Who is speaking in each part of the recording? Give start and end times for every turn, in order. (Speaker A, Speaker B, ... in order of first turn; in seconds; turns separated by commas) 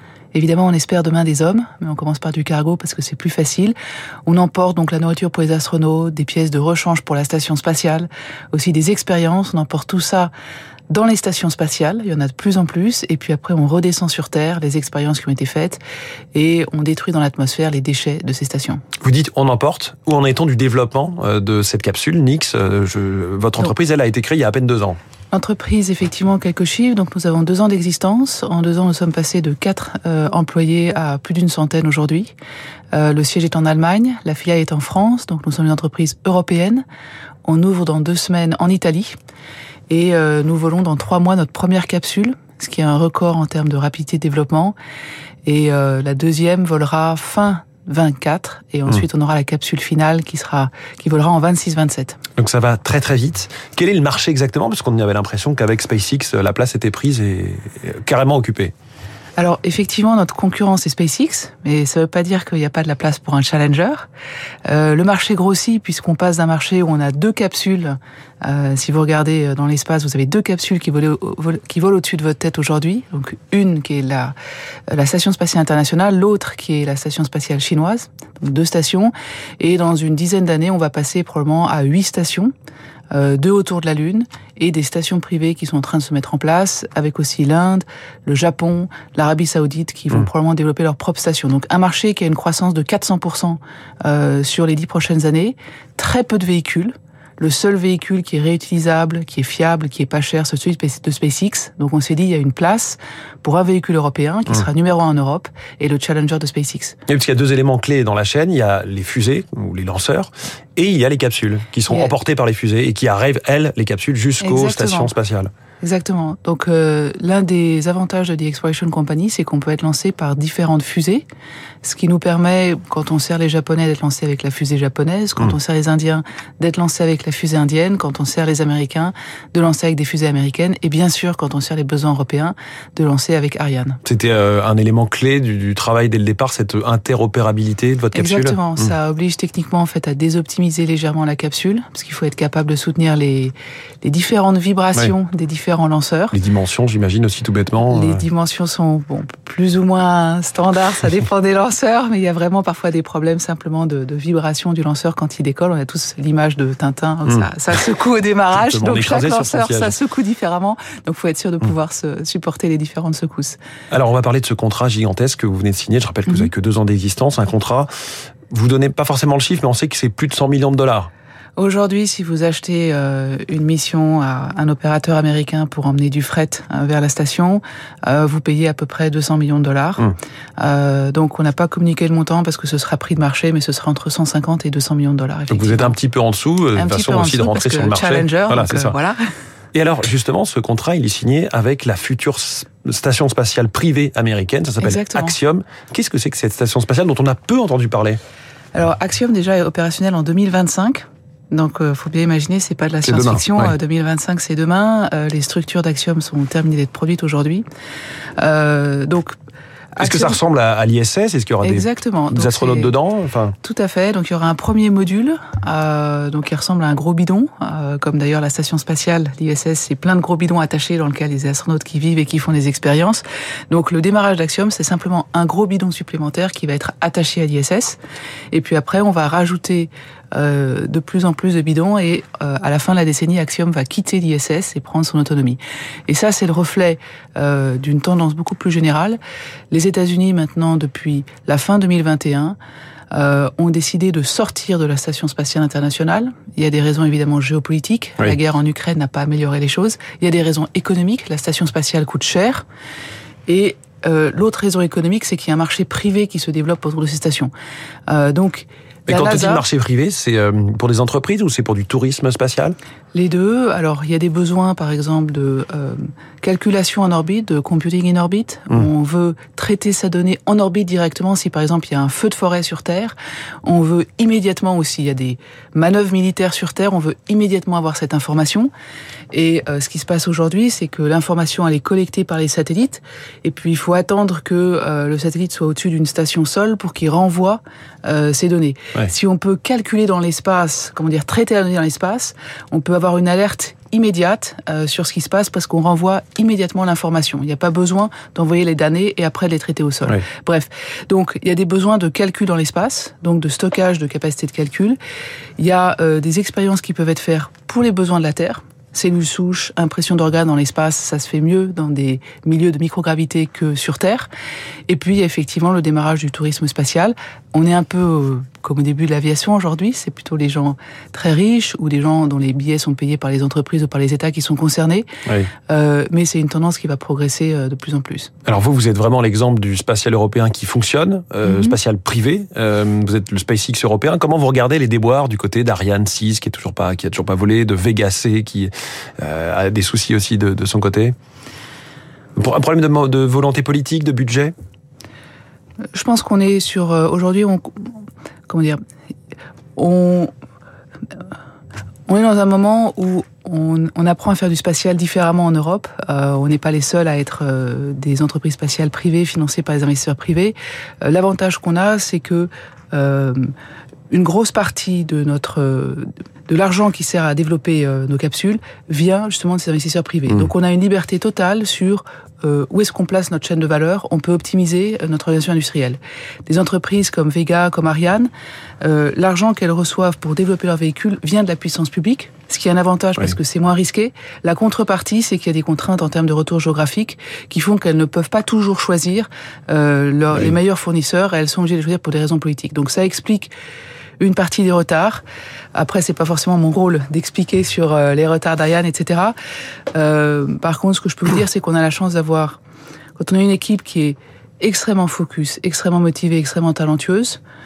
Speaker A: 0.3-3.8, Speaker A: 4.3-10.3, Speaker A: 10.9-15.8, Speaker A: 16.3-18.8, Speaker B: 19.0-25.0, Speaker A: 25.3-32.4, Speaker A: 32.9-36.9, Speaker A: 37.5-39.2, Speaker A: 39.9-44.8, Speaker A: 45.5-52.2, Speaker B: 52.4-58.7, Speaker A: 59.4-64.1, Speaker A: 64.7-74.3, Speaker A: 74.9-82.5, Speaker A: 83.1-107.0, Speaker B: 107.1-115.5, Speaker A: 111.9-112.1, Speaker A: 114.4-115.1, Speaker A: 115.8-121.3, Speaker A: 121.8-134.0, Speaker B: 134.1-138.6, Speaker A: 138.1-146.3, Speaker B: 146.3-148.2, Speaker A: 147.9-163.6, Speaker B: 158.5-159.9, Speaker B: 163.9-167.9, Speaker B: 168.5-171.1, Speaker A: 171.6-185.9, Speaker B: 185.5-189.0, Speaker A: 186.8-189.2, Speaker B: 189.7-198.2, Speaker A: 194.8-195.4, Speaker A: 198.7-207.7, Speaker B: 203.0-203.8, Speaker A: 208.4-209.3, Speaker A: 210.0-210.4, Speaker B: 210.0-213.6, Speaker A: 211.6-212.9, Speaker A: 213.6-228.0, Speaker A: 228.5-239.2, Speaker A: 239.7-242.6, Speaker A: 243.1-252.7, Speaker A: 253.5-257.5, Speaker A: 258.1-259.7, Speaker B: 259.1-262.8, Speaker A: 263.1-278.7, Speaker A: 279.3-305.0, Speaker A: 305.6-314.3, Speaker A: 314.9-325.1, Speaker B: 325.3-325.5, Speaker A: 325.7-328.3, Speaker B: 328.4-341.1, Speaker A: 331.4-331.8, Speaker B: 342.4-344.5, Speaker A: 345.9-347.9, Speaker A: 348.5-348.8, Speaker A: 349.8-350.3, Speaker A: 352.1-363.5, Speaker A: 364.1-378.3, Speaker A: 378.8-393.5, Speaker A: 394.2-395.2, Speaker A: 395.8-399.4, Speaker A: 399.9-402.6, Speaker A: 403.2-407.4